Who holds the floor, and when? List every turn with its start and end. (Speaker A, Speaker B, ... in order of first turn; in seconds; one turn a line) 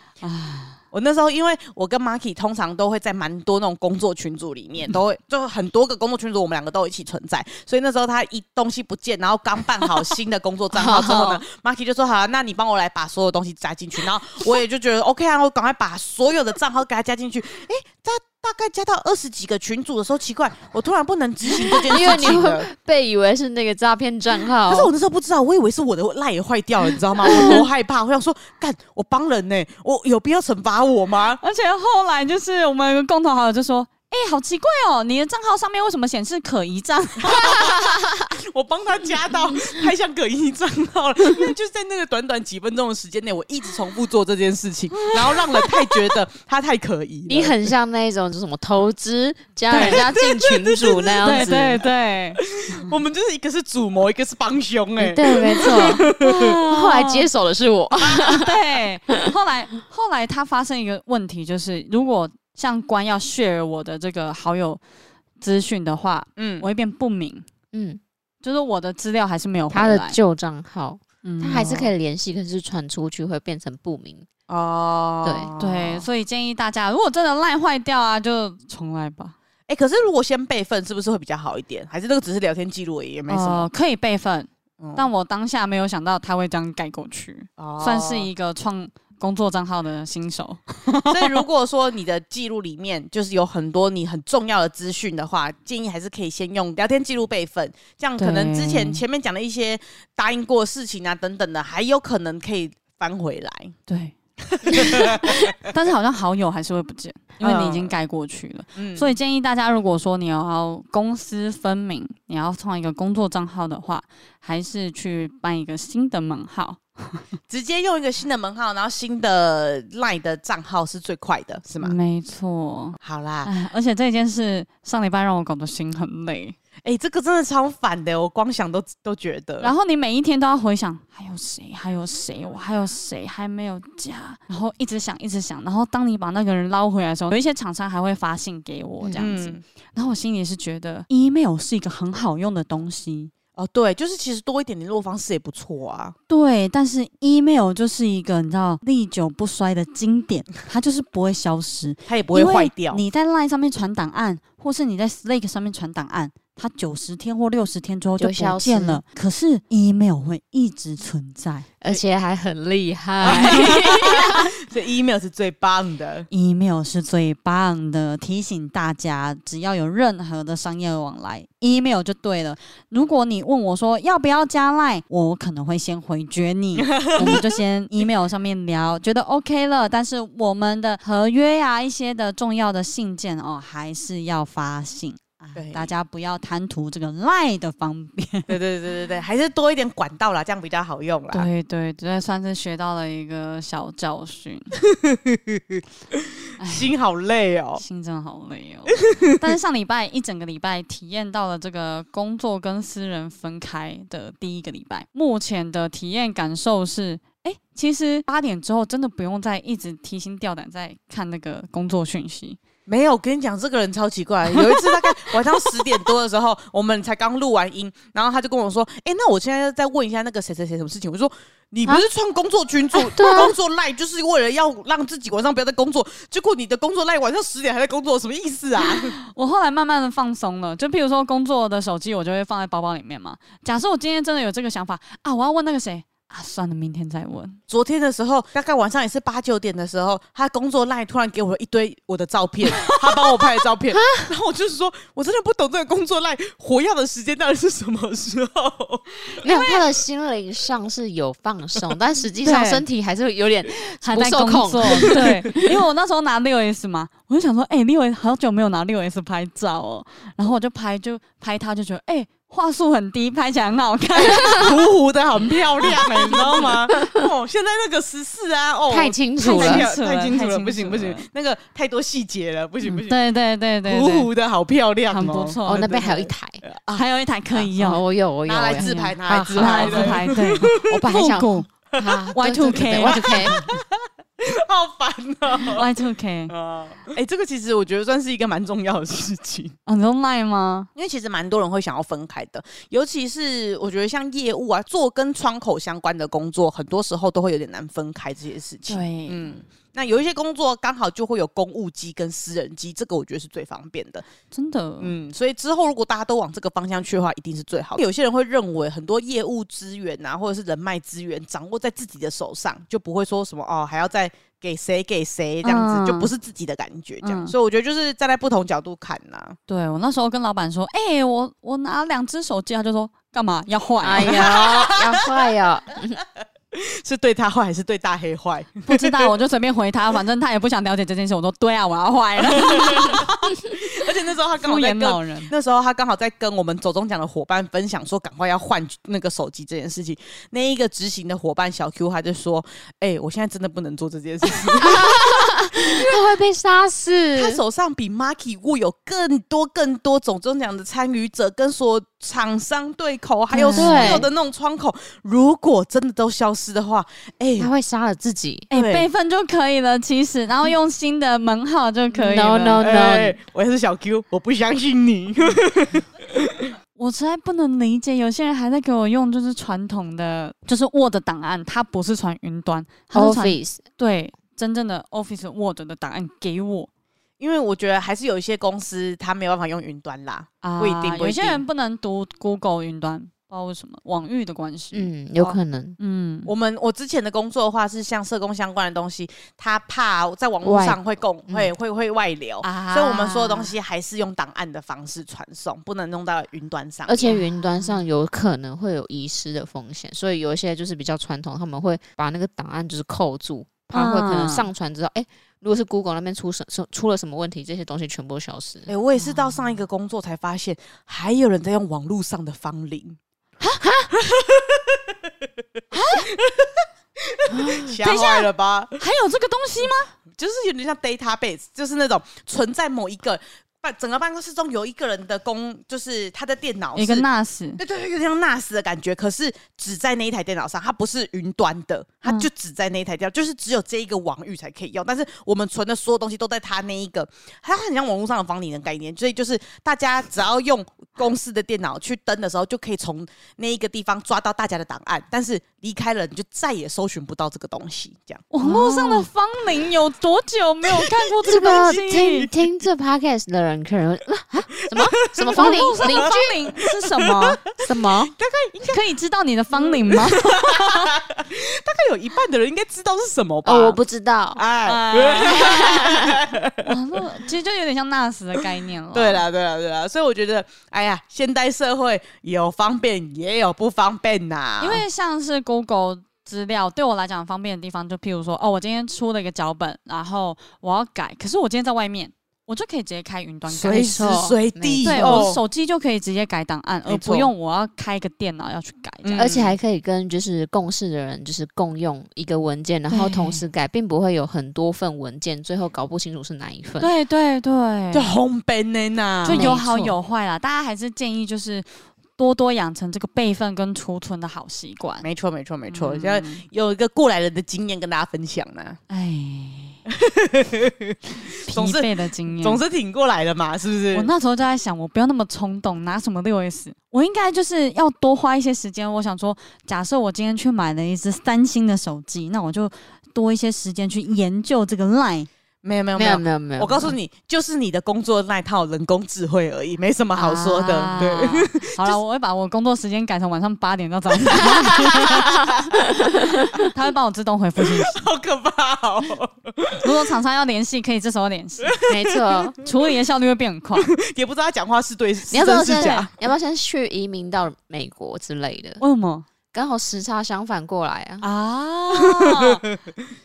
Speaker A: 0.2-0.8
Speaker B: 0.9-22.7
Speaker C: 10.7-11.4
Speaker C: 21.8-24.9
Speaker B: 24.7-31.4
Speaker C: 27.3-27.6
Speaker A: 31.4-37.8
Speaker B: 37.2-47.6
Speaker A: 44.9-45.9
Speaker C: 47.3-51.8
Speaker A: 49.7-50.0
Speaker B: 49.7-51.6
Speaker A: 51.2-52.9
Speaker B: 52.4-56.6
Speaker C: 55.0-58.5
Speaker A: 55.8-57.3
Speaker B: 58.0-58.3
Speaker A: 58.2-64.8
Speaker A: 65.4-67.4
Speaker B: 66.4-66.7
Speaker C: 67.7-68.0
Speaker A: 68.4-70.2
Speaker C: 69.7-74.3
Speaker A: 71.2-71.9
Speaker B: 74.5-76.1
Speaker C: 75.2-75.5
Speaker A: 75.6-79.3
Speaker B: 79.7-83.7
Speaker A: 83.3-91.4
Speaker B: 84.8-85.1
Speaker B: 87.6-88.3
Speaker B: 91.1-103.7
Speaker A: 98.2-99.0
Speaker A: 103.9-104.1
Speaker B: 104.5-105.5
Speaker A: 104.7-117.2
Speaker B: 107.4-107.9
Speaker B: 108.7-109.1
Speaker B: 117.5-122.0
Speaker A: 121.8-126.5
Speaker B: 123.0-123.5
Speaker B: 126.8-129.7
Speaker A: 129.6-143.3
Speaker C: 139.0-139.3
Speaker B: 139.2-139.6
Speaker B: 143.6-146.1
Speaker A: 146.3-161.7
Speaker B: 152.1-153.0
Speaker C: 158.2-159.0
Speaker C: 161.8-164.5
Speaker B: 163.2-166.3
Speaker A: 163.2-163.8
Speaker A: 166.3-188.5
Speaker B: 176.8-177.4
Speaker B: 185.5-185.9
Speaker B: 188.5-191.5
Speaker A: 191.3-194.8
Speaker B: 194.8-197.8
Speaker A: 196.6-196.9
Speaker A: 197.8-212.6
Speaker B: 199.1-199.3
Speaker B: 212.9-229.2
Speaker A: 214.5-215.8
Speaker C: 222.9-223.5
Speaker A: 229.3-237.6
Speaker B: 237.7-250.0
Speaker C: 243.9-244.3
Speaker C: 249.4-255.6
Speaker A: 252.4-252.8
Speaker A: 254.0-264.7
Speaker B: 254.8-255.3
Speaker B: 264.1-273.2
Speaker A: 265.4-266.7
Speaker C: 268.9-269.9
Speaker A: 269.4-271.2
Speaker A: 273.1-274.3
Speaker B: 273.8-277.0
Speaker A: 275.1-275.9
Speaker C: 275.6-276.6
Speaker A: 276.9-278.0
Speaker C: 277.7-283.6
Speaker B: 278.4-281.0
Speaker A: 279.5-281.7
Speaker B: 281.9-285.9
Speaker A: 282.3-283.5
Speaker A: 285.6-286.5
Speaker B: 286.5-289.8
Speaker A: 289.9-290.9
Speaker B: 290.9-304.2
Speaker A: 298.9-299.5
Speaker A: 304.5-305.1
Speaker B: 305.0-319.6
Speaker A: 315.6-316.3
Speaker A: 317.2-317.5
Speaker A: 319.7-324.5
Speaker C: 324.0-326.2
Speaker B: 324.2-325.4
Speaker B: 326.7-329.3
Speaker A: 328.9-333.7
Speaker B: 332.5-346.2
Speaker A: 334.6-335.5
Speaker C: 344.8-347.6
Speaker B: 347.3-357.7
Speaker A: 353.5-354.3
Speaker C: 353.6-354.3
Speaker C: 357.6-358.7
Speaker A: 358.7-362.8
Speaker B: 358.7-359.1
Speaker C: 362.1-363.4
Speaker B: 362.8-366.7
Speaker A: 366.9-376.9
Speaker C: 373.1-373.8
Speaker B: 377.4-381.6
Speaker A: 380.6-385.1
Speaker C: 384.9-386.0
Speaker A: 386.0-386.5
Speaker B: 386.4-397.3
Speaker C: 390.6-391.7
Speaker A: 392.6-393.7
Speaker C: 397.1-408.9
Speaker A: 397.2-397.9
Speaker A: 403.9-404.7
Speaker B: 408.9-413.2
Speaker A: 413.6-413.9
Speaker C: 413.8-414.1
Speaker B: 414.1-415.6
Speaker A: 415.9-416.3
Speaker B: 416.3-419.0
Speaker C: 417.5-417.9
Speaker A: 418.0-420.1
Speaker B: 420.3-427.2
Speaker A: 426.9-427.8
Speaker B: 427.8-448.4
Speaker A: 448.5-452.5
Speaker C: 448.6-449.3
Speaker B: 451.0-452.0
Speaker C: 451.4-456.5
Speaker B: 454.9-457.6
Speaker A: 455.5-457.6
Speaker C: 457.8-458.3
Speaker B: 458.1-459.0
Speaker A: 458.8-461.1
Speaker B: 459.7-464.0
Speaker C: 463.6-464.6
Speaker B: 464.5-466.9
Speaker A: 464.8-466.1
Speaker C: 465.5-466.3
Speaker A: 466.8-469.4
Speaker B: 469.1-475.0
Speaker A: 474.8-484.2
Speaker B: 483.7-485.6
Speaker C: 483.9-485.5
Speaker A: 485.0-489.5
Speaker B: 487.1-487.5
Speaker B: 489.2-489.8
Speaker C: 489.4-497.1
Speaker A: 493.1-493.6
Speaker A: 497.0-498.3
Speaker B: 498.1-499.8
Speaker A: 499.4-505.2
Speaker C: 499.4-500.1
Speaker B: 505.2-509.0
Speaker A: 505.9-506.6
Speaker A: 509.1-510.0
Speaker B: 510.1-511.2
Speaker A: 511.6-512.8
Speaker B: 511.7-514.3
Speaker A: 514.1-525.5
Speaker B: 525.8-532.2
Speaker C: 526.1-527.1
Speaker A: 530.4-535.6
Speaker B: 534.5-535.8
Speaker C: 535.2-536.7
Speaker A: 536.6-538.1
Speaker B: 537.8-540.3
Speaker A: 540.0-542.0
Speaker B: 541.8-542.9
Speaker C: 542.1-542.8
Speaker A: 542.8-544.1
Speaker B: 544.0-546.3
Speaker C: 545.5-549.0
Speaker A: 549.0-549.5
Speaker C: 549.7-551.4
Speaker A: 551.4-552.8
Speaker B: 552.1-553.2